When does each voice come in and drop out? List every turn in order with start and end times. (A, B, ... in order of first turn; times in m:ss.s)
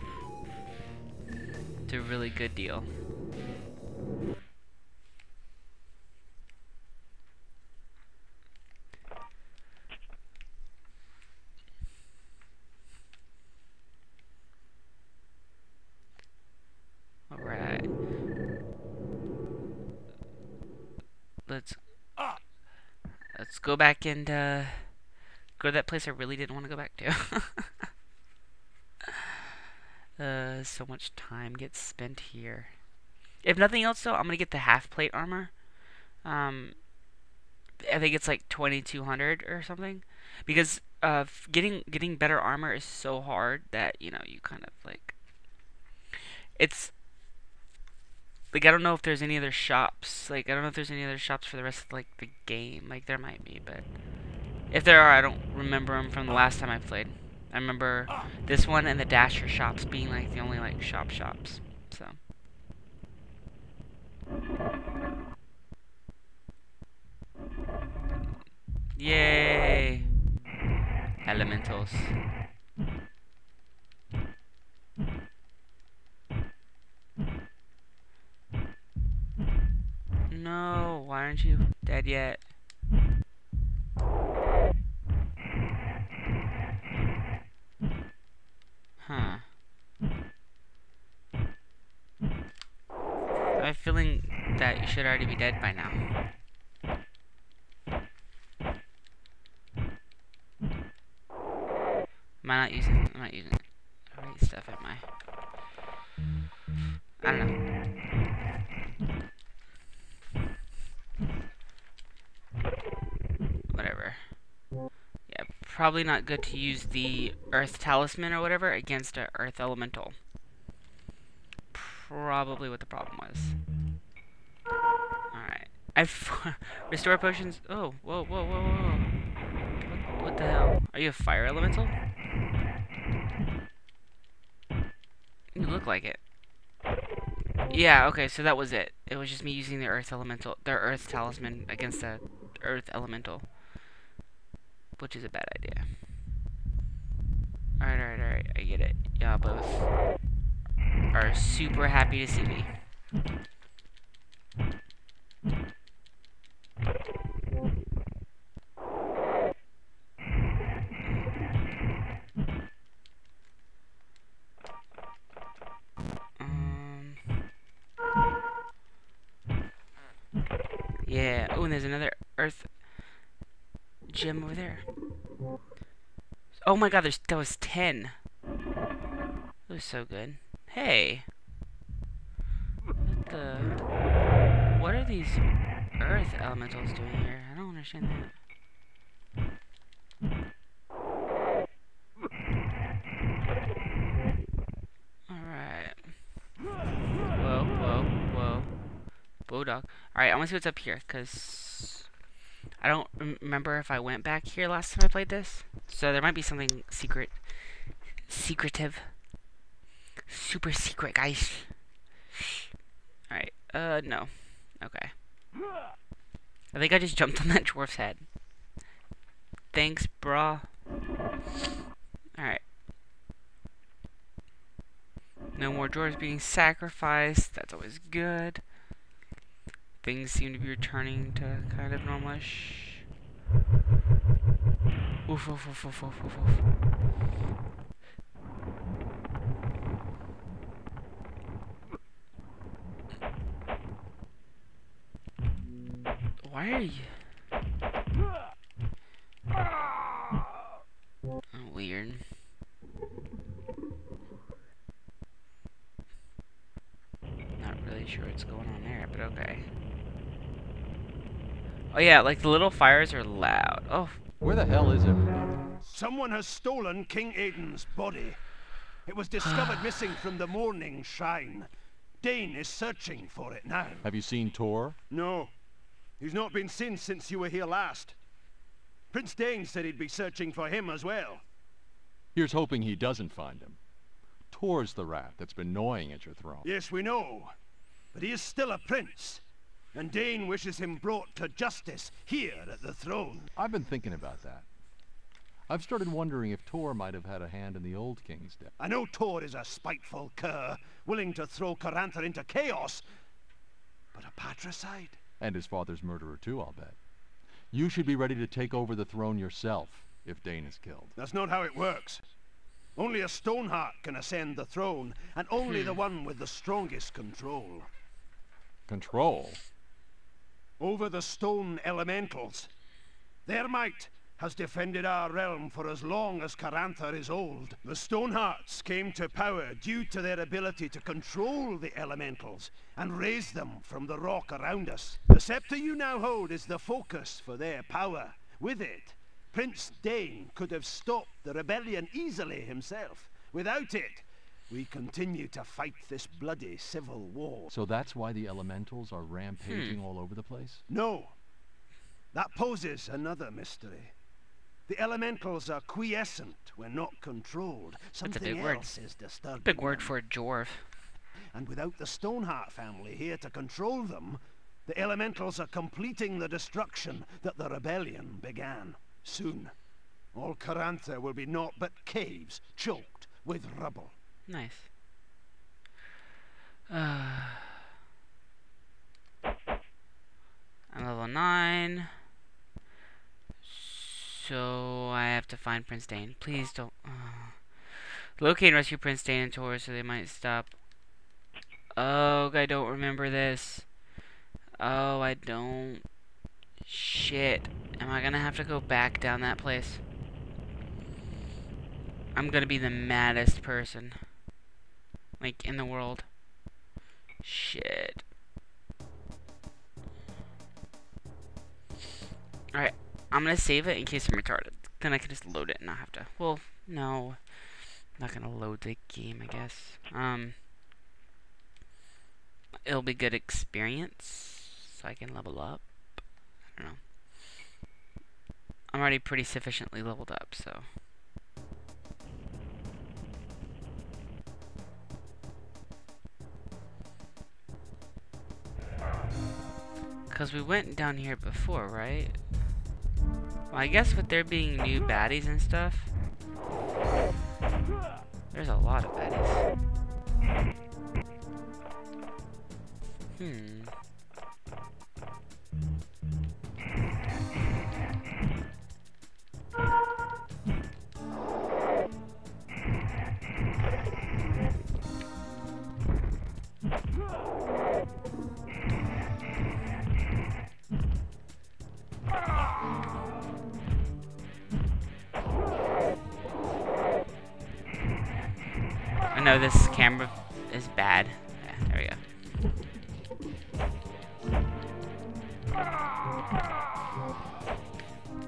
0:01.9-0:02.9 A
0:17.3-0:17.9 A
0:21.5-0:21.8 A
0:23.3-0:25.0 A
0:25.6-0:27.9 A
0:30.2-0:32.7 A
0:33.4-0:35.6 A
0:36.2-0:36.8 A
0:37.8-0:45.2 A
0:46.6-0:46.9 A
0:48.5-0:53.9 A
0:54.7-1:02.2 A
1:09.0-1:10.1 A
1:11.2-1:12.2 A
1:20.3-1:22.4 A
1:29.0-1:29.4 A
1:33.6-1:36.0 A
1:42.4-1:45.0 A
1:47.2-1:47.6 A
1:53.7-1:54.4 A
1:55.3-2:00.2 A
2:01.7-2:03.6 A
2:05.3-2:09.1 A
2:09.8-2:12.0 A
2:15.5-2:16.2 A
2:17.7-2:23.5 A
2:25.0-2:25.9 A
2:27.8-2:29.9 A
2:31.1-2:32.7 A
2:46.4-2:47.2 A
2:51.0-2:53.2 A
2:54.1-2:54.9 A
2:56.6-2:58.2 A
2:59.7-3:01.3 A
3:03.0-3:03.9 A
3:04.7-3:08.3 A
3:15.3-3:16.2 A
3:17.3-3:18.8 A
3:19.4-3:22.1 A
3:22.8-3:29.2 A
3:30.3-3:31.8 A
3:33.3-3:35.1 A
3:36.7-3:38.3 A
3:39.7-3:40.7 A
3:42.4-3:42.6 A
3:45.6-3:48.6 A
3:50.0-3:53.0 A
3:55.3-3:56.6 A
4:06.4-4:07.3 A
4:11.5-4:12.2 A
4:17.6-4:19.7 A
4:21.9-4:24.2 A
4:24.4-4:25.4 B
4:25.8-4:28.4 C
4:29.1-4:31.7 C
4:32.2-4:34.1 C
4:34.0-4:35.0 B
4:35.1-4:35.5 C
4:36.2-4:38.2 C
4:39.1-4:41.4 C
4:42.3-4:43.8 B
4:44.5-4:46.7 B
4:46.6-4:47.5 C
4:48.1-4:49.4 C
4:49.9-4:53.5 C
4:53.6-4:54.7 B
4:55.7-4:58.7 B
4:58.8-5:03.0 C
5:04.1-5:05.2 C
5:05.4-5:07.0 B
5:07.7-5:11.1 B
5:11.2-5:12.2 C
5:13.0-5:17.9 C
5:15.7-5:16.0 A
5:18.9-5:19.6 B
5:20.8-5:22.7 C
5:23.5-5:47.7 C
5:47.7-5:50.8 B
5:49.7-5:50.0 A
5:50.9-5:51.4 C
5:52.3-5:54.1 C
5:54.9-6:00.1 C
5:58.2-5:58.9 A
5:59.6-6:01.0 A
6:01.5-6:09.7 C
6:10.3-6:14.2 C
6:14.5-6:14.9 A
6:16.9-6:17.8 A
6:20.9-6:22.1 A
6:23.6-6:30.7 A
6:32.0-6:33.9 A
6:34.8-6:36.1 A
6:36.8-6:40.0 A
6:42.3-6:44.3 A
6:45.4-6:46.3 A
6:47.4-6:48.2 A
6:52.7-7:00.6 A
7:02.8-7:07.0 A
7:08.9-7:10.9 A
7:20.3-7:22.4 A
7:23.7-7:26.1 A
7:28.5-7:29.7 A
7:33.4-7:33.9 A
7:59.3-8:02.2 A